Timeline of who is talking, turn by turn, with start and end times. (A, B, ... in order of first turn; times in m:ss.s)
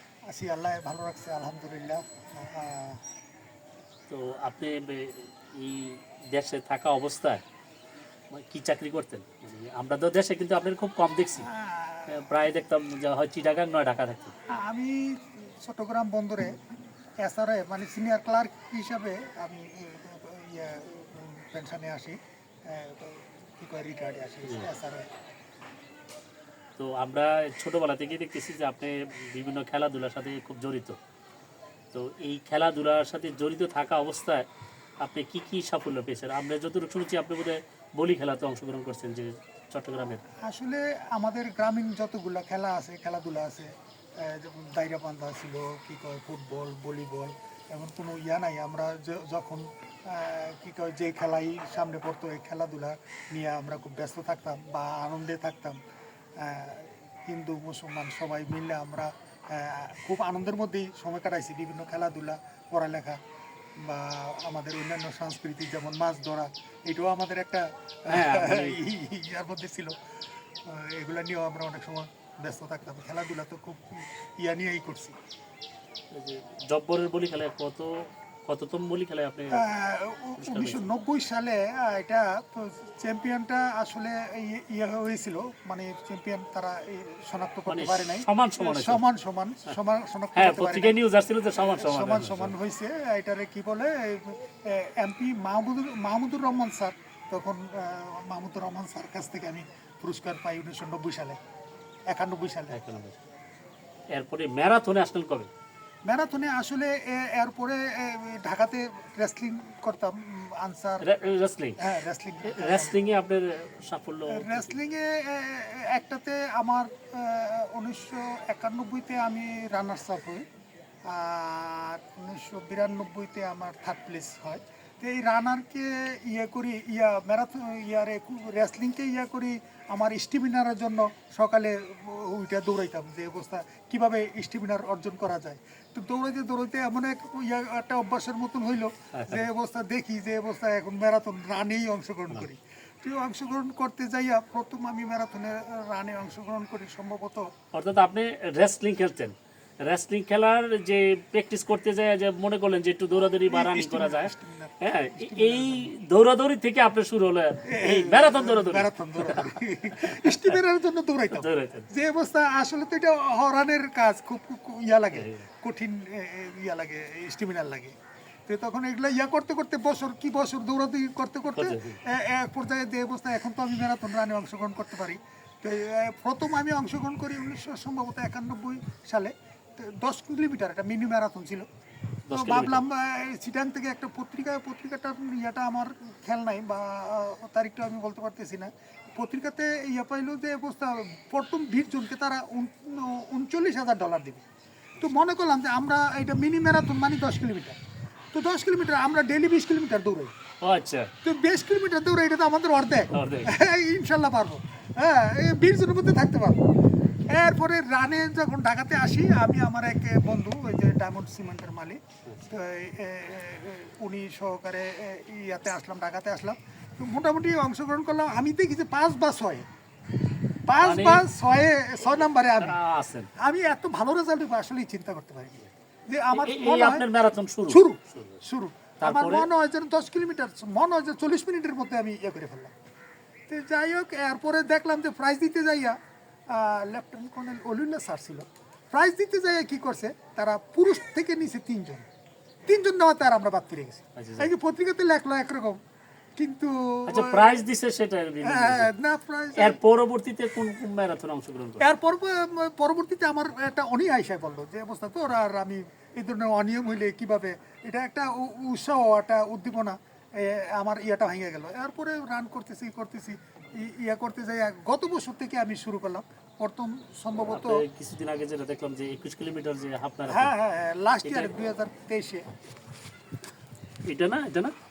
0:00.3-0:03.0 A
0:04.1-0:07.4 B
0:08.3-0:11.5 B
0:11.4-0:12.2 A
0:12.1-0:14.3 B
0:14.5-0:16.6 A
0:17.2-0:25.1 A
0:26.8-0:31.0 B
0:31.9-0:34.5 B
0:35.0-0:40.2 B
0:40.4-0:55.8 A
0:56.4-1:03.2 A
1:03.8-1:10.0 A
1:08.1-1:08.8 B
1:10.6-1:15.2 A
1:16.1-1:19.6 B
1:19.5-1:31.0 A
1:20.4-1:20.8 B
1:27.7-1:29.0 B
1:30.4-1:32.6 B
1:31.5-1:41.4 A
1:42.1-1:42.8 A
1:42.7-1:43.2 B
1:44.1-1:45.5 B
1:46.0-1:51.1 A
1:51.0-1:51.8 B
1:51.8-1:53.0 A
1:52.4-1:54.8 B
1:54.3-2:00.4 A
2:01.1-2:27.5 A
2:19.1-2:19.4 B
2:27.7-2:40.6 B
2:33.5-2:35.9 A
2:37.7-2:48.0 A
2:41.3-2:41.9 B
2:45.1-2:45.5 B
2:48.5-3:01.7 A
2:51.6-2:52.0 B
3:02.3-3:02.8 B
3:02.3-3:14.4 A
3:15.0-3:17.8 A
3:18.3-3:20.3 A
3:20.6-3:21.1 B
3:21.2-3:26.6 A
3:23.1-3:23.5 B
3:27.3-3:39.7 A
3:40.7-3:42.8 A
3:40.8-3:41.2 B
3:42.6-3:43.3 B
3:43.4-3:47.1 A
3:46.4-3:48.4 B
3:47.7-3:52.7 A
3:49.0-3:49.5 B
3:53.5-3:56.0 A
3:56.5-4:02.1 A
4:02.7-4:05.8 A
4:04.2-4:04.5 B
4:06.4-4:07.6 A
4:07.1-4:08.9 B
4:08.4-4:09.8 A
4:09.6-4:11.8 B
4:11.8-4:27.8 A
4:27.5-4:30.5 B
4:30.3-4:32.4 A
4:31.2-4:31.5 B
4:34.0-4:34.7 B